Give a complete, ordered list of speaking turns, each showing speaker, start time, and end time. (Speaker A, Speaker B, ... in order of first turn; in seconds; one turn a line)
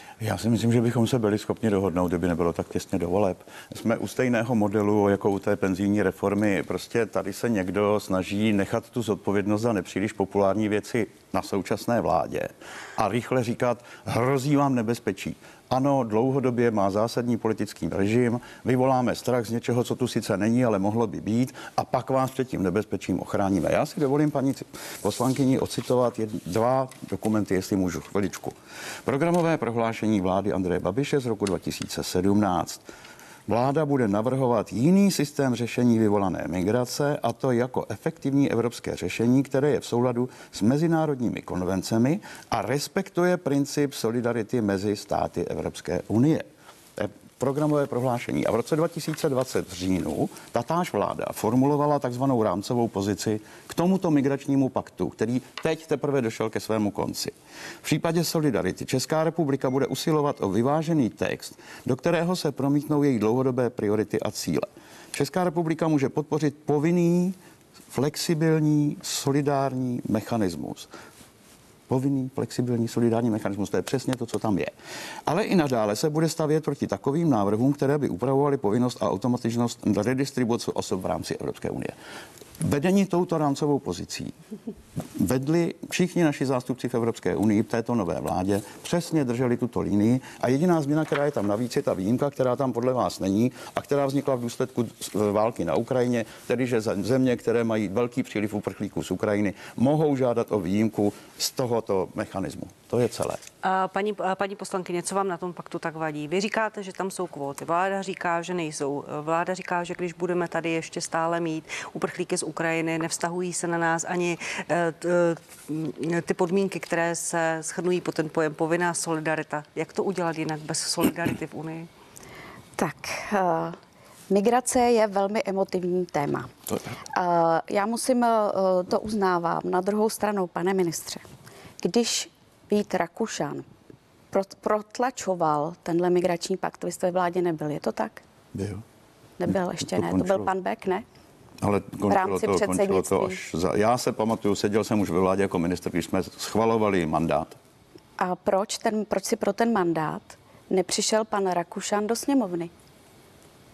Speaker A: 0.2-28.5
Speaker A: 29.1-32.8
Speaker A: 33.5-67.3
Speaker A: 67.9-70.9
Speaker A: 71.9-74.7
Speaker A: 75.3-81.9
Speaker A: 82.6-84.3
Speaker A: 85.1-103.4
Speaker B: 103.6-121.9
Speaker C: 122.8-123.8
Speaker C: 124.3-126.5
Speaker C: 127.1-131.2
Speaker C: 131.8-133.6
Speaker C: 134.3-138.2
Speaker A: 138.5-138.8
Speaker C: 139.4-141.0
Speaker A: 139.5-140.5
Speaker A: 141.6-147.6
Speaker C: 142.1-143.4
Speaker C: 148.2-152.7